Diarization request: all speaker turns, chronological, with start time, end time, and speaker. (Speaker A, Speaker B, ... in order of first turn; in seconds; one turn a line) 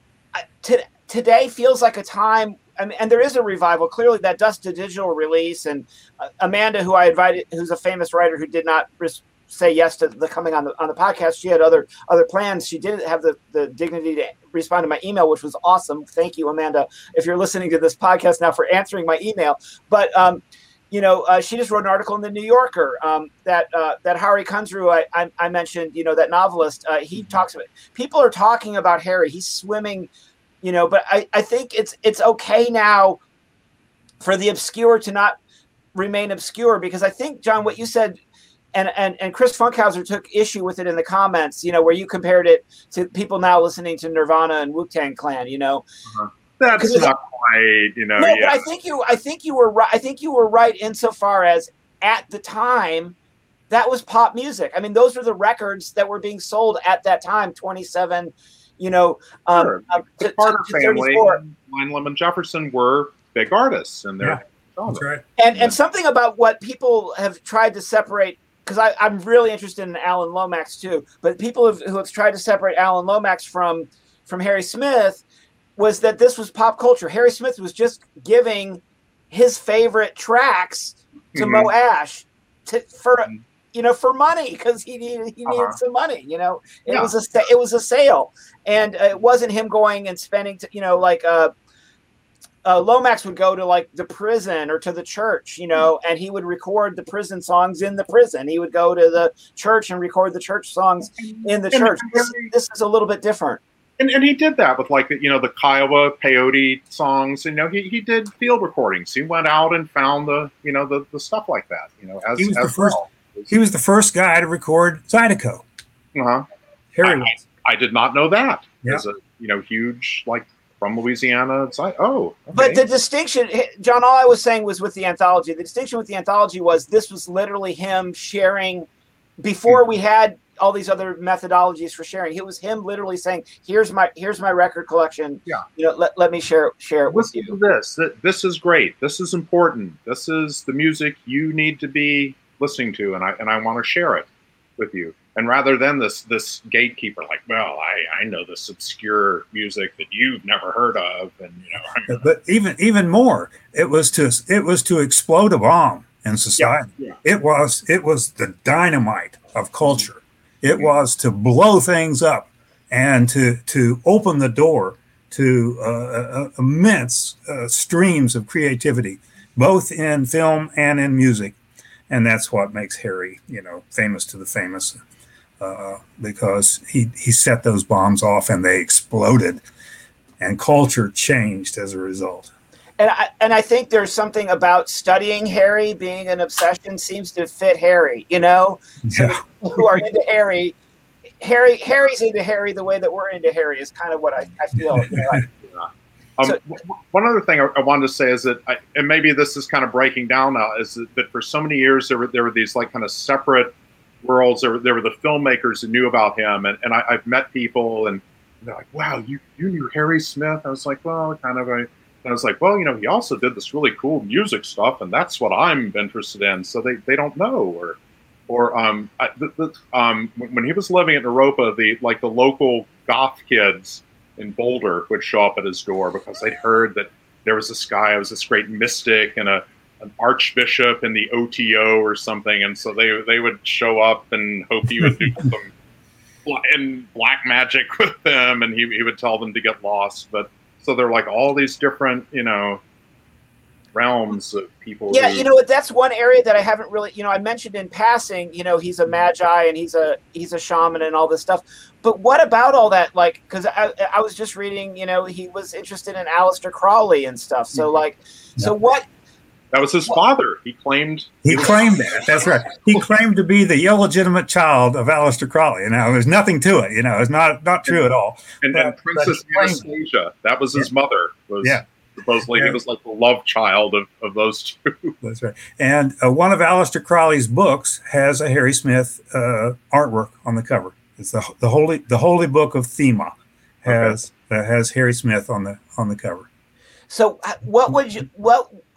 Speaker A: 0.3-30.1
Speaker A: 30.6-33.2
Speaker A: 34.2-35.4
Speaker A: 36.0-38.2
Speaker A: 38.8-45.8
Speaker B: 46.1-48.6
Speaker A: 46.8-47.1
Speaker A: 48.2-53.1
Speaker A: 53.7-61.4
Speaker B: 59.5-65.8
Speaker C: 64.2-65.2
Speaker A: 65.4-75.2
Speaker A: 75.8-91.5
Speaker B: 81.4-81.7
Speaker B: 85.5-85.8
Speaker B: 86.9-87.1
Speaker A: 92.6-103.6
Speaker B: 101.2-102.5
Speaker B: 104.0-113.5
Speaker C: 112.4-113.0
Speaker C: 113.5-115.6
Speaker B: 116.2-116.5
Speaker C: 116.9-117.4
Speaker B: 117.0-122.8
Speaker A: 122.5-128.9
Speaker A: 129.4-137.6
Speaker B: 137.1-144.3
Speaker B: 144.8-152.2
Speaker C: 152.1-171.6
Speaker B: 156.6-157.2
Speaker C: 172.1-175.0
Speaker C: 175.6-179.6
Speaker C: 180.4-182.5
Speaker A: 183.0-190.8
Speaker C: 189.1-189.8
Speaker A: 191.4-195.4
Speaker C: 194.9-195.3
Speaker B: 195.7-235.7
Speaker B: 236.4-242.8
Speaker B: 243.9-245.5
Speaker A: 245.1-259.1
Speaker B: 259.7-262.5
Speaker C: 261.4-269.9
Speaker B: 268.6-275.1
Speaker C: 272.5-272.8
Speaker C: 275.2-286.5
Speaker B: 283.9-284.2
Speaker A: 287.1-288.8